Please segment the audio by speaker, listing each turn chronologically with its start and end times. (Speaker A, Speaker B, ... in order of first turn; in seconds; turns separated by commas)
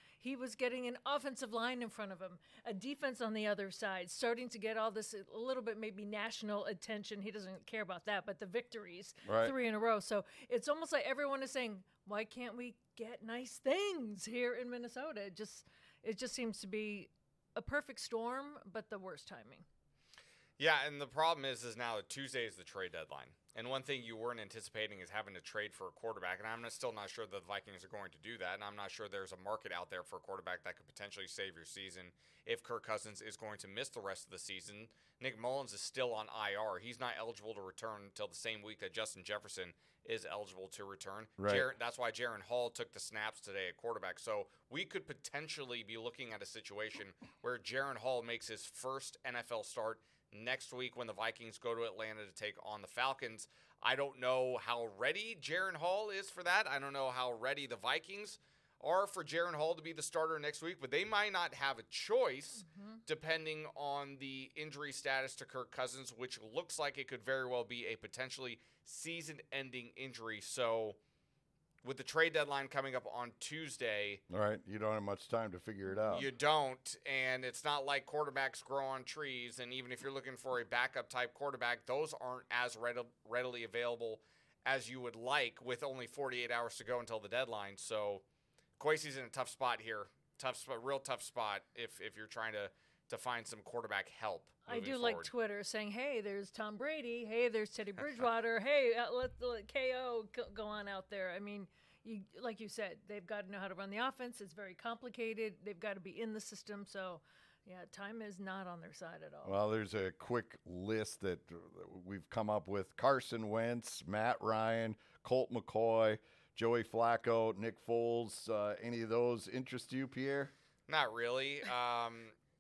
Speaker A: 0.2-19.7, Speaker B: 9.2-9.6, Speaker C: 20.6-71.0, Speaker B: 41.4-41.7, Speaker A: 62.7-63.0, Speaker C: 71.8-74.2, Speaker B: 74.3-76.2, Speaker A: 75.9-76.2, Speaker C: 76.1-88.2, Speaker C: 88.8-95.3, Speaker A: 94.7-109.6, Speaker B: 109.4-120.5, Speaker C: 120.9-122.3